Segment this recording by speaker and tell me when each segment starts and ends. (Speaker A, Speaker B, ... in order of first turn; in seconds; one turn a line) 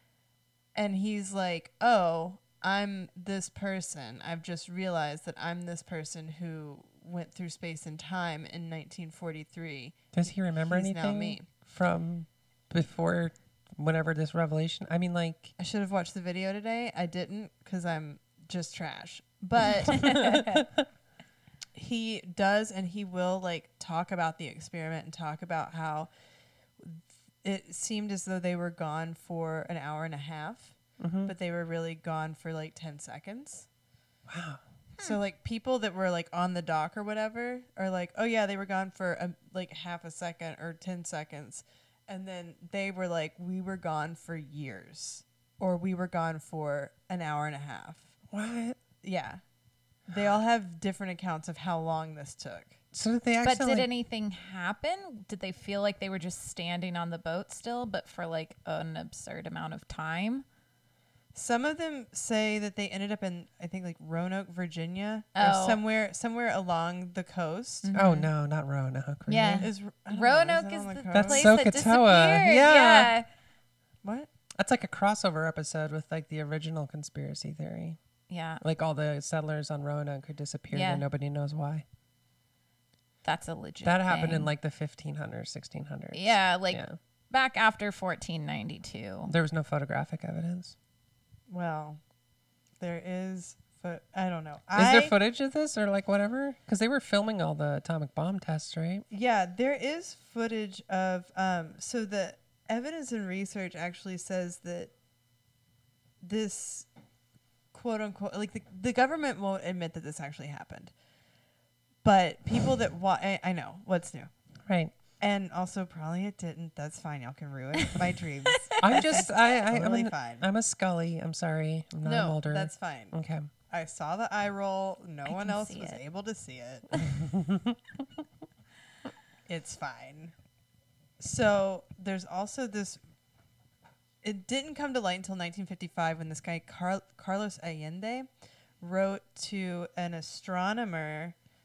Speaker A: 0.8-11.5
Speaker B: 10.1-15.5
Speaker A: 15.6-20.5
Speaker C: 19.9-20.6
Speaker B: 20.0-20.9
Speaker A: 21.8-26.1
Speaker A: 26.8-33.7
Speaker B: 31.0-31.3
Speaker B: 34.3-34.6
Speaker A: 35.0-48.1
Speaker B: 48.3-48.8
Speaker A: 49.0-49.4
Speaker A: 50.1-52.8
Speaker B: 52.9-53.9
Speaker C: 53.4-60.5
Speaker A: 61.3-68.0
Speaker C: 65.4-65.8
Speaker C: 67.8-68.3
Speaker B: 68.0-69.7
Speaker C: 69.3-73.3
Speaker A: 69.6-71.5
Speaker B: 71.1-73.1
Speaker B: 74.6-78.0
Speaker C: 78.3-78.6
Speaker B: 78.6-81.8
Speaker C: 80.7-81.0
Speaker C: 83.2-84.5
Speaker B: 83.8-87.0
Speaker C: 86.1-89.3
Speaker B: 89.3-90.8
Speaker A: 91.5-92.0
Speaker A: 92.8-95.1
Speaker B: 94.8-99.0
Speaker A: 99.1-104.9
Speaker A: 106.2-106.9
Speaker A: 107.7-110.9
Speaker A: 112.0-114.3
Speaker B: 114.7-114.9
Speaker A: 115.2-120.5
Speaker C: 118.5-119.2
Speaker B: 118.8-123.5
Speaker A: 122.0-123.2
Speaker A: 123.7-127.1
Speaker C: 125.2-126.0
Speaker B: 127.3-127.8
Speaker A: 129.5-130.3
Speaker A: 131.2-133.0
Speaker A: 134.2-138.3
Speaker A: 138.8-141.3